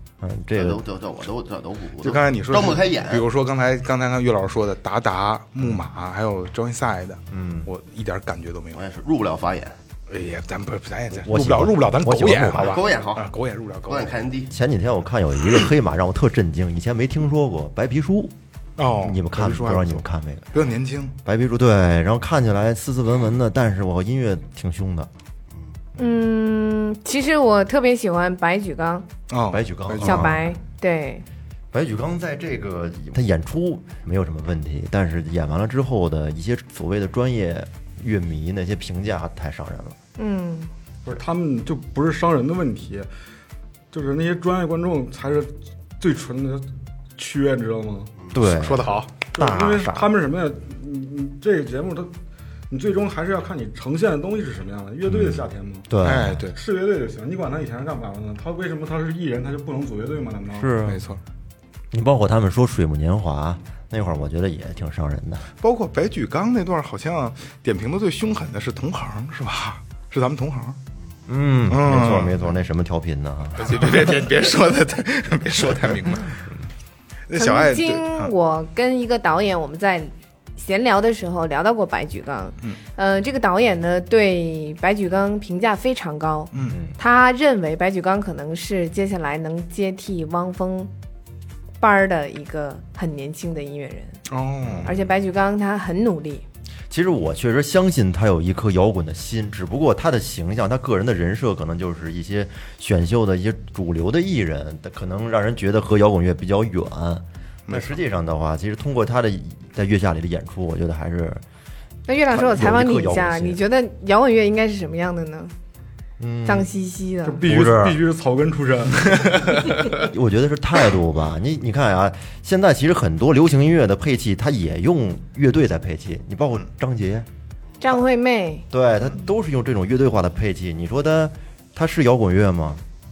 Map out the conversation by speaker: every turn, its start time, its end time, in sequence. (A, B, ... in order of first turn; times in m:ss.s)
0:00.2-0:00.8 A
0:00.5-0:03.2 B
0:02.0-0:08.8 C
0:07.3-0:07.7 A
0:08.7-0:09.8 B
0:10.1-0:14.1 C
0:11.2-0:12.8 A
0:12.6-0:13.3 B
0:13.9-0:14.5 B
0:14.5-0:18.3 A
0:18.8-0:21.1 C
0:19.0-0:20.6 A
0:21.2-0:25.1 A
0:26.0-0:29.1 D
0:29.3-0:30.3 C
0:29.5-0:30.5 A
0:30.0-0:31.2 D
0:31.7-0:40.0 A
0:40.2-0:40.7 D
0:41.0-0:43.1 E
0:43.9-0:48.1 E
0:48.3-0:50.1 A
0:48.5-0:49.1 C
0:49.3-0:52.1 E
0:52.7-0:55.9 E
0:55.1-0:56.4 A
0:56.0-0:56.6 C
0:56.5-1:00.8 E
1:00.5-1:01.0 A
1:00.8-1:01.2 C
1:01.9-1:05.5 A
1:05.6-1:10.8 C
1:11.3-1:14.2 A
1:11.7-1:12.4 C
1:13.6-1:16.4 C
1:17.3-1:18.3 C
1:17.3-1:30.9 D
1:26.7-1:27.0 A
1:31.8-1:34.2 D
1:34.3-1:34.9 C
1:34.8-1:36.4 D
1:36.9-1:51.4 A
1:47.7-1:48.0 C
1:52.1-1:55.5 D
1:52.3-1:53.6 A
1:56.2-1:56.7 A
1:56.4-1:57.4 D
1:57.2-1:59.1 E
1:57.4-1:58.0 A
1:59.9-2:07.3 A
2:07.8-2:08.6 D
2:08.7-2:12.8 A